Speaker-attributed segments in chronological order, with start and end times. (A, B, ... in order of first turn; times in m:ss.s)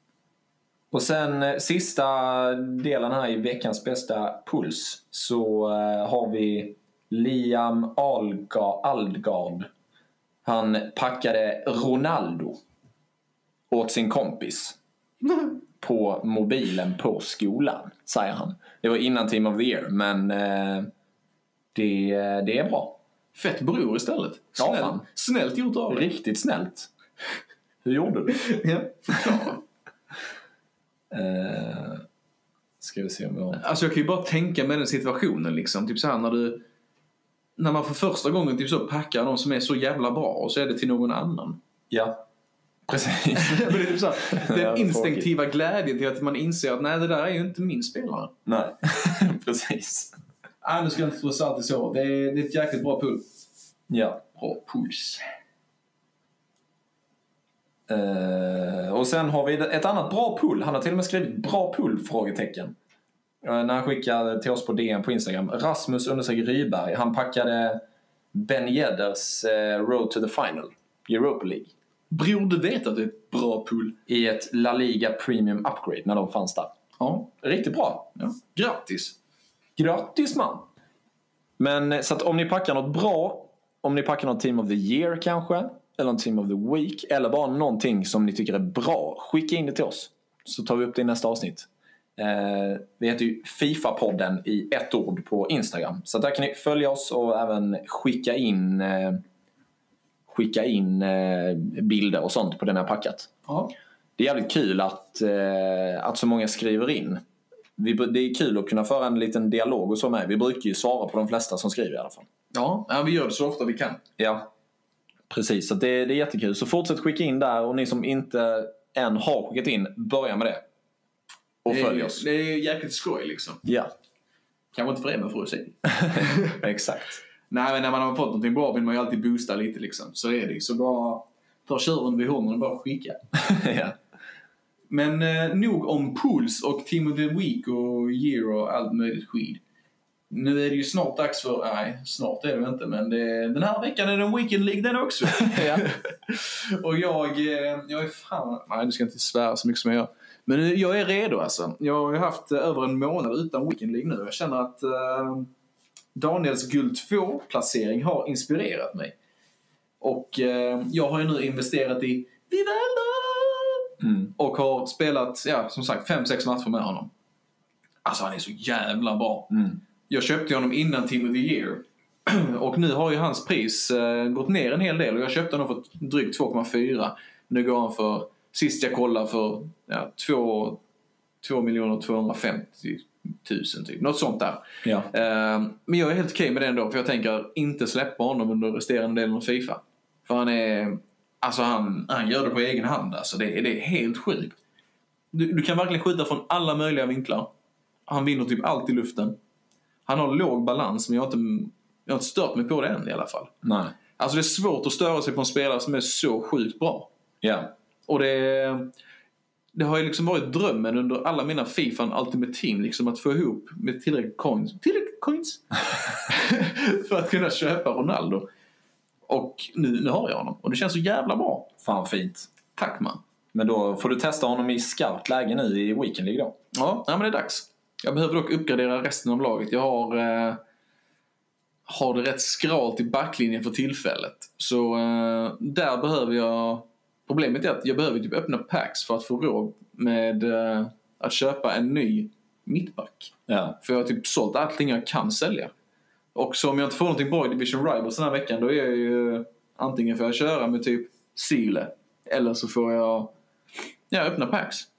0:00.9-0:09.7 A
0:10.4-0:12.6 A
0:13.7-0:14.8 A
0:15.2-0:15.5 B
0:15.8-0:20.9 A
0:21.7-0:23.0 A
0:23.3-0:26.1 B
0:24.6-0:25.0 A
0:25.9-0:26.9 A
0:27.8-0:28.5 A
0:28.3-0:29.6 B
0:31.1-0:32.0 A
0:32.8-0:33.6 A
0:33.6-0:36.6 B
0:37.6-0:41.6 B
0:41.9-0:42.2 A
0:42.9-0:45.3 A
0:43.4-0:48.3 B
0:48.5-0:50.2 A
0:50.6-0:53.3 B
0:53.9-0:54.2 A
0:54.4-0:55.2 B
0:57.9-1:02.8 A
1:03.4-1:11.7 A
1:12.1-1:14.0 B
1:14.1-1:16.7 A
1:17.3-1:18.2 A
1:18.2-1:19.2 B
1:19.8-1:20.7 A
1:21.6-1:39.2 A
1:40.3-1:43.3 A
1:43.5-1:43.7 B
1:44.2-1:47.2 A
1:47.8-1:52.3 A
1:52.5-1:54.0 B
1:54.2-1:54.5 A
1:55.3-2:00.6 A
2:01.6-2:02.3 A
2:01.7-2:03.6 B
2:03.6-2:03.9 A
2:04.7-2:06.3 B
2:05.9-2:07.2 A
2:07.5-2:13.2 B
2:13.3-2:14.0 A
2:14.9-2:19.6 B
2:20.3-2:35.5 B
2:36.2-2:39.1 B
2:40.0-2:47.1 B
2:44.0-2:44.3 A
2:48.0-2:49.5 B
2:49.5-2:49.8 A
2:50.1-3:00.8 B
3:01.4-3:14.6 B
3:15.3-3:17.5 B
3:18.1-3:19.4 B
3:20.1-3:23.5 B
3:23.6-3:23.9 A
3:24.2-3:27.1 B
3:27.4-3:27.7 A
3:28.1-3:28.9 B
3:29.7-3:35.6 B
3:36.2-3:38.5 B
3:39.3-3:41.8 B
3:41.8-3:42.5 A
3:42.8-3:43.2 B
3:43.5-3:46.6 A
3:46.7-3:50.6 B
3:51.9-4:05.7 B
4:03.5-4:03.8 A
4:06.4-4:13.3 B
4:14.1-4:14.9 B